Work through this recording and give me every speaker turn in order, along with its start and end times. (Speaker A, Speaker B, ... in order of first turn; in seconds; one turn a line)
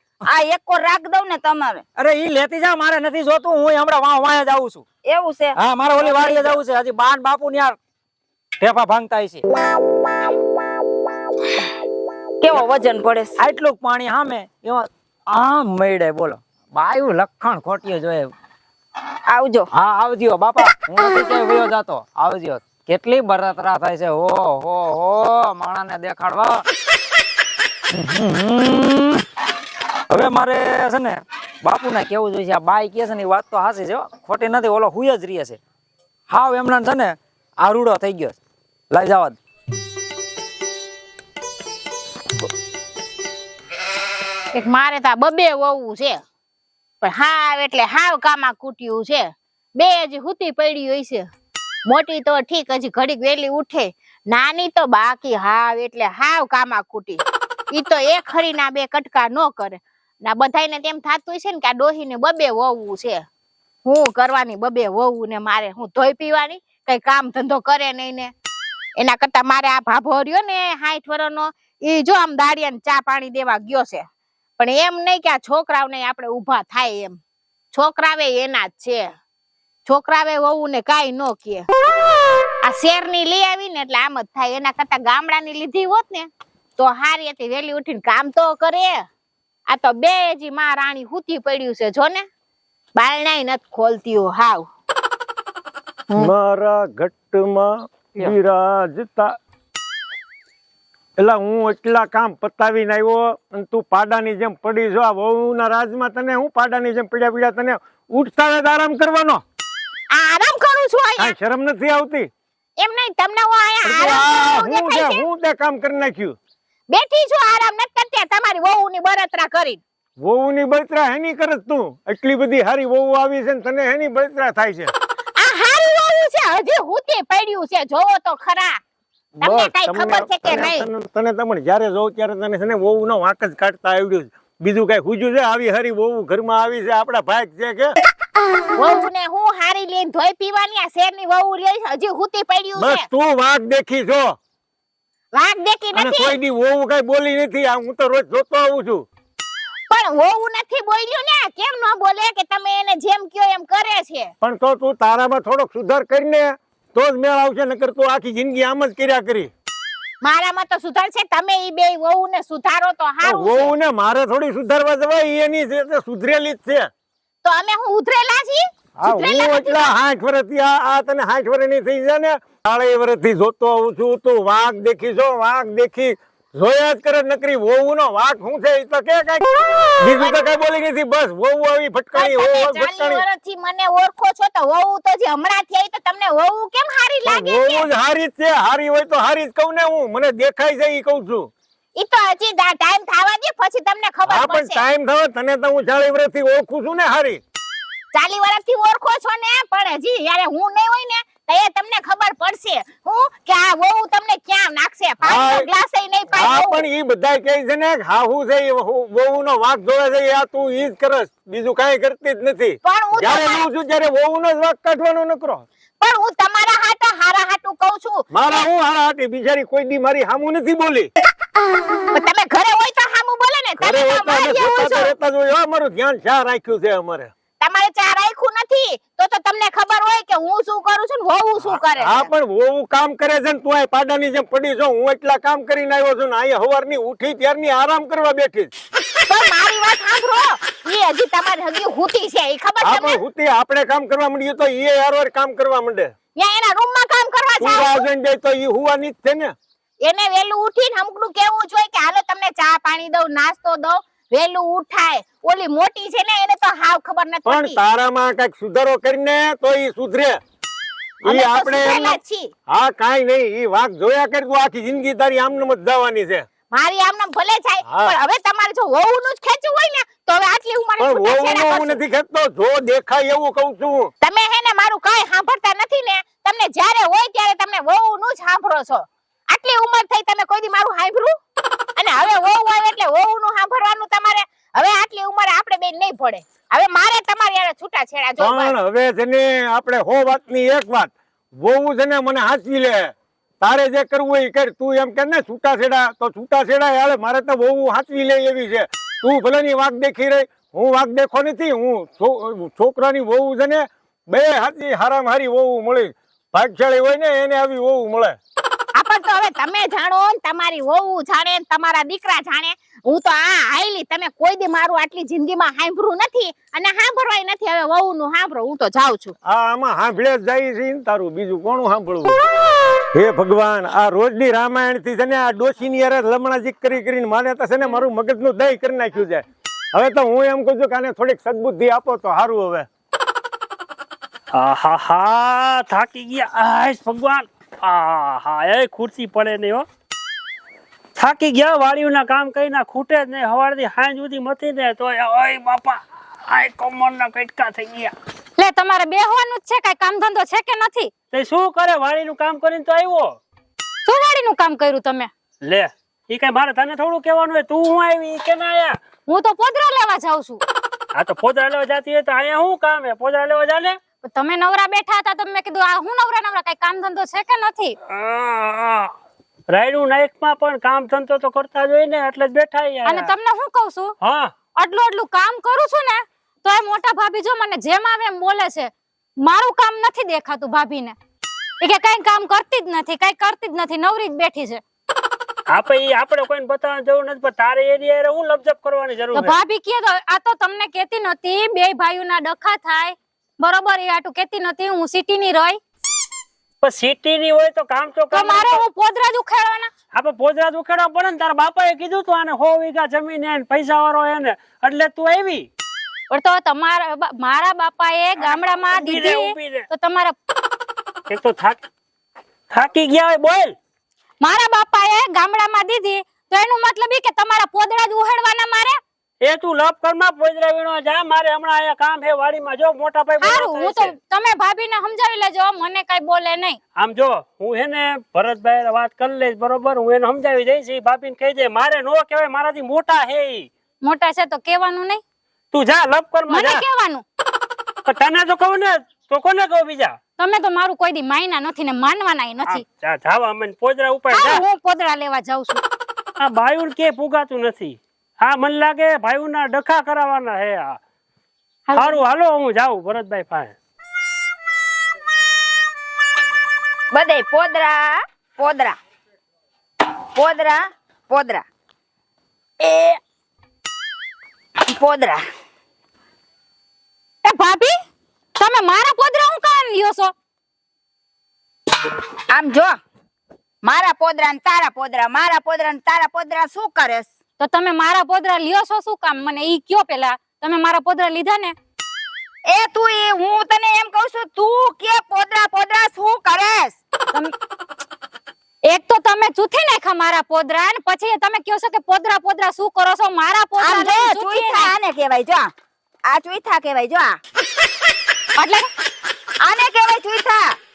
Speaker A: 0.3-1.8
Speaker B: 1.9-4.8
Speaker A: 5.0-6.4
Speaker B: 5.6-7.8
Speaker B: 8.6-9.4
Speaker A: 12.4-13.4
Speaker B: 13.4-18.3
Speaker A: 19.3-19.7
Speaker B: 19.7-26.6
Speaker B: 27.9-29.2
Speaker B: 30.1-35.6
Speaker B: 36.3-38.4
Speaker B: 38.9-39.4
Speaker C: 44.5-46.2
Speaker C: 47.0-51.3
Speaker C: 51.8-63.2
Speaker C: 63.8-68.3
Speaker C: 69.0-74.0
Speaker C: 74.6-77.2
Speaker C: 77.7-79.1
Speaker C: 79.8-81.7
Speaker C: 82.6-89.0
Speaker C: 89.7-92.2
Speaker C: 93.0-94.6
Speaker D: 96.2-99.3
Speaker D: 101.2-109.4
Speaker C: 110.1-111.3
Speaker D: 111.2-112.3
Speaker C: 112.8-115.2
Speaker D: 113.8-116.3
Speaker C: 116.9-119.8
Speaker D: 120.2-124.9
Speaker C: 125.3-128.8
Speaker D: 129.4-137.9
Speaker C: 129.4-130.9
Speaker C: 138.8-143.1
Speaker D: 142.8-144.3
Speaker C: 145.3-146.4
Speaker D: 145.9-149.0
Speaker C: 149.9-154.3
Speaker D: 154.4-159.5
Speaker C: 160.2-163.7
Speaker D: 163.2-166.9
Speaker C: 167.4-169.9
Speaker D: 169.0-179.5
Speaker D: 180.0-183.2
Speaker C: 180.2-180.6
Speaker C: 182.1-187.8
Speaker D: 187.2-191.5
Speaker C: 191.9-194.8
Speaker D: 194.2-197.4
Speaker C: 198.1-206.8
Speaker D: 205.2-205.7
Speaker D: 206.3-215.7
Speaker C: 212.8-213.7
Speaker C: 216.0-218.7
Speaker D: 218.3-221.1
Speaker C: 222.1-225.1
Speaker D: 223.8-227.3
Speaker C: 227.6-232.3
Speaker D: 231.7-238.7
Speaker C: 239.3-243.2
Speaker D: 242.8-246.1
Speaker C: 246.3-248.1
Speaker D: 247.6-249.5
Speaker C: 250.0-257.8
Speaker D: 257.4-260.4
Speaker D: 261.2-262.2
Speaker C: 261.2-262.5
Speaker D: 262.7-266.4
Speaker C: 266.7-272.0
Speaker D: 267.9-268.1
Speaker D: 271.0-274.1
Speaker C: 274.2-281.3
Speaker C: 282.0-288.7
Speaker D: 288.4-308.4
Speaker C: 308.9-319.3
Speaker D: 319.4-322.4
Speaker D: 323.1-332.9
Speaker E: 334.5-339.9
Speaker E: 341.1-348.1
Speaker F: 348.6-351.1
Speaker E: 351.3-353.4
Speaker F: 354.0-355.3
Speaker E: 355.6-359.0
Speaker F: 359.2-360.6
Speaker E: 361.1-364.0
Speaker F: 364.2-367.9
Speaker E: 368.1-369.1
Speaker E: 369.7-373.3
Speaker F: 373.0-374.1
Speaker E: 374.2-374.5
Speaker F: 374.7-378.9
Speaker F: 379.4-381.2
Speaker F: 381.8-384.8
Speaker E: 385.7-389.6
Speaker F: 389.3-395.8
Speaker E: 396.8-398.8
Speaker F: 398.3-399.9
Speaker E: 400.1-405.7
Speaker F: 406.3-410.4
Speaker E: 408.5-409.9
Speaker E: 411.3-411.8
Speaker E: 412.7-413.8
Speaker F: 414.4-419.0
Speaker E: 419.4-424.1
Speaker F: 423.4-426.8
Speaker E: 426.9-433.7
Speaker F: 434.0-435.2
Speaker E: 435.7-436.8
Speaker F: 436.5-437.2
Speaker E: 438.1-440.2
Speaker F: 440.4-442.8
Speaker E: 442.7-444.6
Speaker F: 444.3-445.8
Speaker E: 446.4-451.0
Speaker F: 451.9-452.2
Speaker E: 451.9-453.7
Speaker A: 457.1-459.0
Speaker A: 460.3-461.6
Speaker A: 464.9-465.4
Speaker F: 467.4-467.9
Speaker F: 468.6-470.3
Speaker A: 472.5-472.9
Speaker A: 473.8-477.3
Speaker F: 477.6-481.7
Speaker A: 482.7-487.0
Speaker F: 488.8-494.9
Speaker A: 493.8-495.7
Speaker A: 496.3-497.4
Speaker F: 498.6-498.9
Speaker A: 499.6-500.8